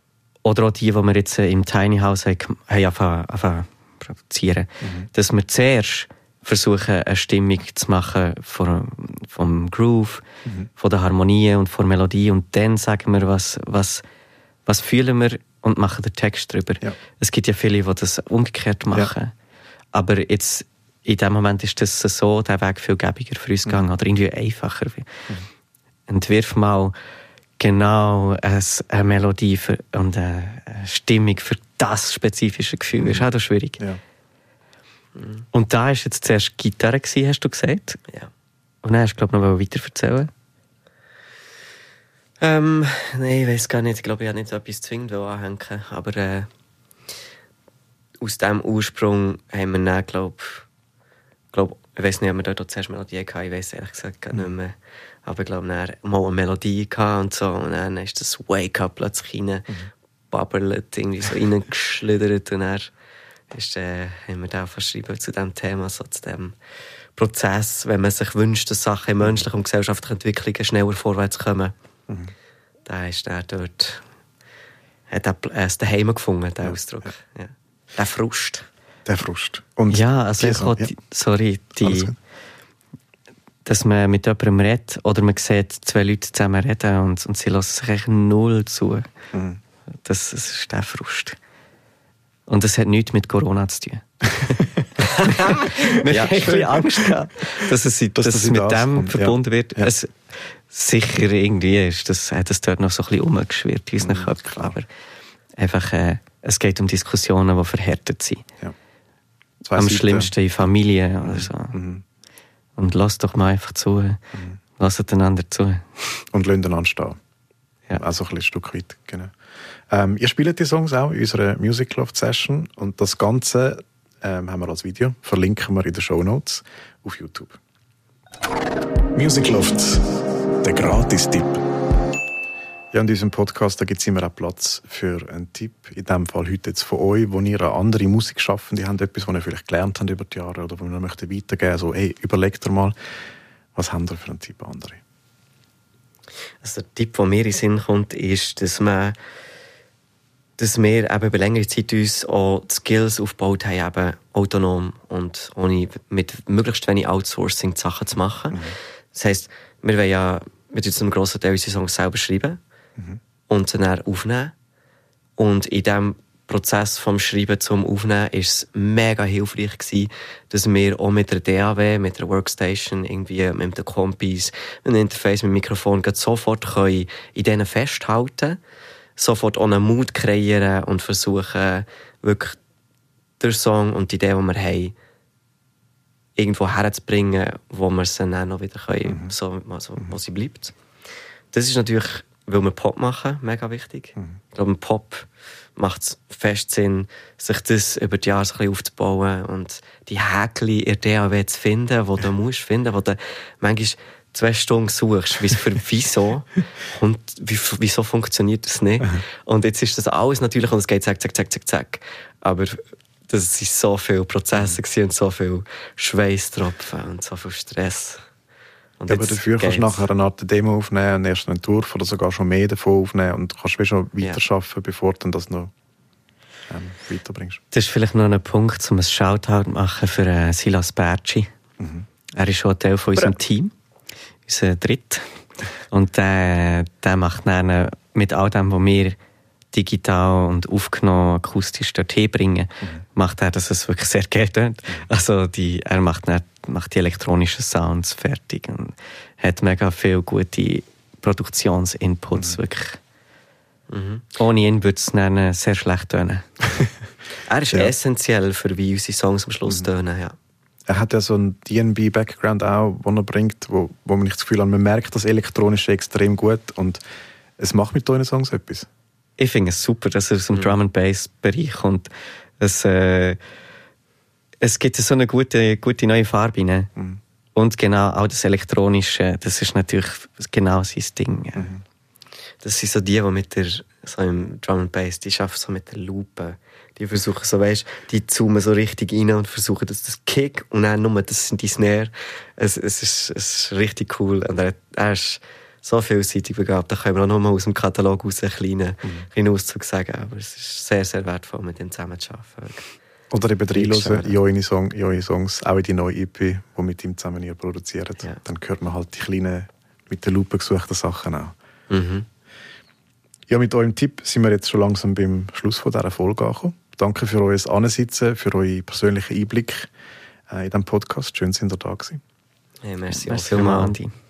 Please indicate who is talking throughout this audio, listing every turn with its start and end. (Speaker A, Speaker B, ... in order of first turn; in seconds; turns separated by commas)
Speaker A: 0.5-10.2, Speaker B: 4.8-5.1, Speaker A: 10.8-14.0, Speaker A: 14.7-19.3, Speaker A: 19.9-25.1, Speaker A: 26.1-26.9, Speaker A: 27.6-33.8, Speaker C: 35.2-35.4, Speaker A: 35.5-38.0, Speaker A: 38.8-40.3, Speaker C: 42.4-46.5, Speaker C: 48.2-50.7, Speaker C: 51.5-59.7, Speaker C: 60.3-62.9, Speaker C: 63.5-66.6, Speaker C: 67.2-71.7, Speaker B: 72.1-72.3, Speaker C: 72.9-74.0, Speaker C: 75.1-78.7, Speaker B: 79.1-80.9, Speaker A: 79.9-82.1, Speaker B: 81.8-82.2, Speaker A: 83.7-89.1, Speaker B: 89.3-89.6, Speaker A: 90.0-91.4, Speaker A: 92.5-104.9, Speaker C: 96.1-96.8, Speaker B: 98.2-99.9, Speaker B: 104.0-104.8, Speaker A: 105.6-108.4, Speaker B: 109.6-110.3, Speaker A: 109.8-111.8, Speaker B: 111.2-112.0, Speaker A: 112.8-114.2, Speaker A: 114.8-116.2, Speaker B: 116.3-117.2, Speaker B: 117.9-119.3, Speaker B: 119.9-127.6, Speaker B: 129.1-130.1, Speaker B: 130.6-131.6, Speaker B: 132.9-142.9, Speaker B: 143.8-145.0, Speaker C: 146.6-149.2, Speaker C: 150.6-162.6, Speaker C: 163.5-164.5, Speaker C: 165.4-178.6, Speaker C: 179.2-182.6, Speaker C: 183.4-184.9, Speaker C: 186.4-190.8, Speaker B: 189.1-189.3, Speaker C: 191.5-218.2, Speaker C: 219.0-220.1, Speaker B: 219.1-225.7, Speaker B: 226.7-227.6, Speaker A: 227.7-231.5, Speaker B: 231.8-232.1, Speaker A: 232.3-233.7, Speaker A: 234.5-235.3, Speaker A: 235.9-239.2, Speaker A: 239.7-253.0, Speaker C: 253.9-254.3, Speaker A: 254.4-256.4, Speaker C: 257.5-260.4, Speaker B: 260.9-267.0, Speaker B: 267.6-268.9, Speaker A: 269.4-272.1, Speaker A: 272.6-273.4, Speaker A: 274.6-276.9, Speaker A: 277.6-281.7, Speaker B: 281.6-281.8, Speaker C: 282.6-302.9, Speaker B: 303.3-311.5, Speaker C: 303.7-304.4, Speaker C: 311.9-312.3, Speaker B: 313.5-319.9, Speaker B: 320.5-322.2, Speaker C: 322.8-323.9, Speaker A: 323.1-324.1